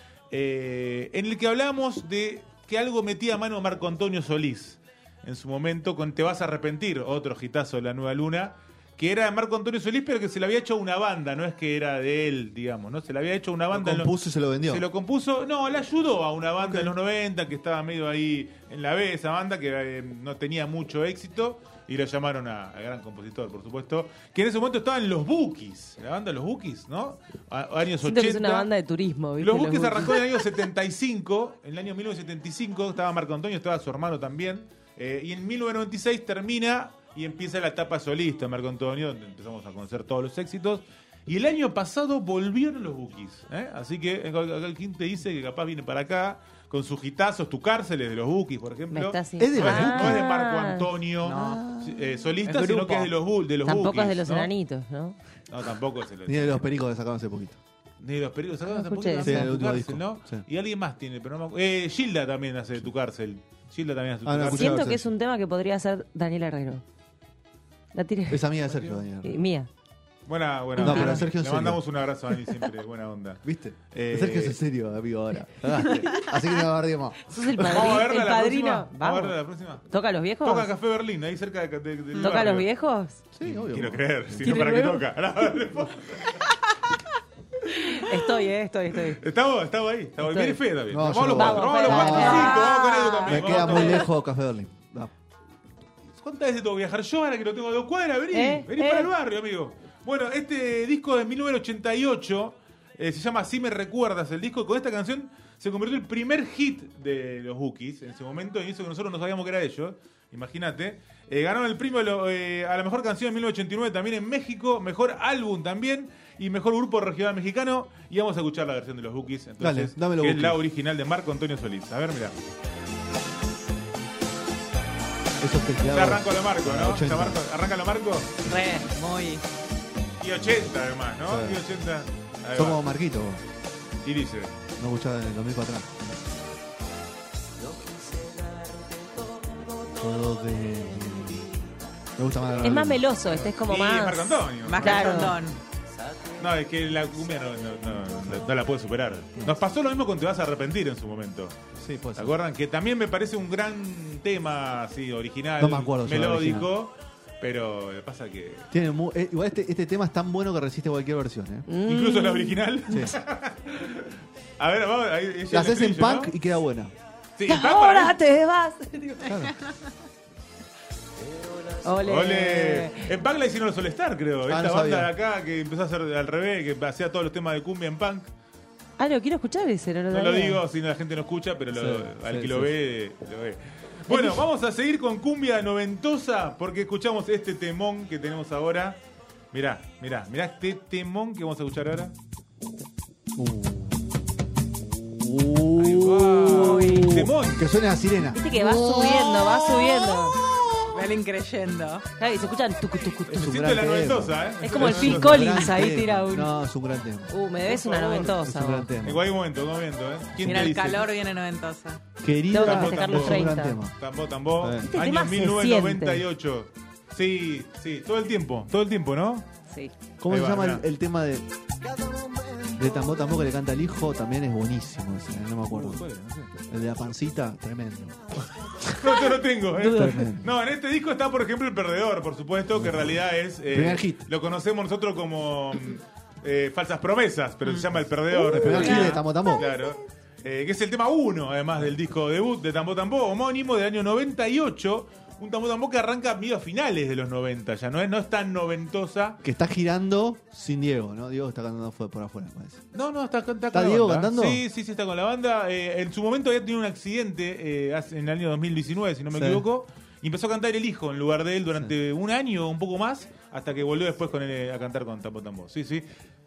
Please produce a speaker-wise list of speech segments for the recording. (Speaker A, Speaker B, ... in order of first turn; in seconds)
Speaker A: 0.3-14.1, 14.7-28.7, 29.4-54.5, 55.5-56.6, 58.0-64.8, 68.7-69.0, 70.3-74.6, 77.6-79.8, 80.4-82.7, 83.4-86.4, 89.2-94.1, 96.2-122.3, 125.8-128.3, 130.2-132.8, 134.0-134.5, 143.6-145.3, 146.4-151.6, 152.2-158.7, 161.8-166.3, 167.4-168.2, 172.0-178.3, 180.1-189.0, 189.5-192.2, 195.8-197.6, 203.3-205.6, 207.7-208.5, 209.0-211.1, 212.5-219.5, 220.3-220.8, 225.7-226.5, 229.0-249.4, 252.9-266.1
Speaker B: 13.7-14.8, 16.6-16.9, 49.4-50.3, 51.2-52.2, 56.3-57.6, 59.2-60.4, 64.2-65.1, 68.3-69.4, 70.8-71.8, 73.4-77.2, 83.3-84.7, 90.9-92.7, 93.3-95.1, 119.6-120.6, 125.4-127.4, 131.2-131.6, 132.5-133.4, 134.8-135.9, 140.0-143.5, 151.8-152.3, 155.6-156.7, 158.7-161.7, 162.9-163.2, 165.5-166.9, 169.2-169.5, 174.5-175.1, 181.7-182.7, 193.3-201.1, 203.3-207.3, 208.3-209.2, 212.2-213.9, 214.6-214.9, 220.2-221.5, 222.8-226.0, 226.7-228.3, 229.8-230.5, 232.8-233.0, 233.7-234.2, 238.4-239.7, 249.4-252.8, 253.7-254.6, 259.3-259.6
Speaker C: 28.0-30.2, 48.9-50.9, 53.6-55.2, 58.7-59.5, 64.5-66.8, 67.9-68.5, 69.2-69.7, 70.8-71.2, 77.3-79.3, 79.9-80.7, 82.2-83.2, 84.4-85.0, 87.7-89.2, 90.2-90.6, 91.3-94.1, 98.3-99.1, 142.6-145.4, 161.7-162.7, 167.5-169.3, 171.8-173.1, 179.0-180.6, 184.1-184.4, 196.5-197.1, 198.3-200.4, 202.2-203.3, 204.6-206.6, 207.3-208.9, 212.5-213.8, 214.8-216.2, 238.6-239.2
Speaker D: 51.2-51.6, 52.5-53.1, 128.5-129.4, 144.6-145.6, 169.4-169.7, 200.9-202.0, 210.4-212.0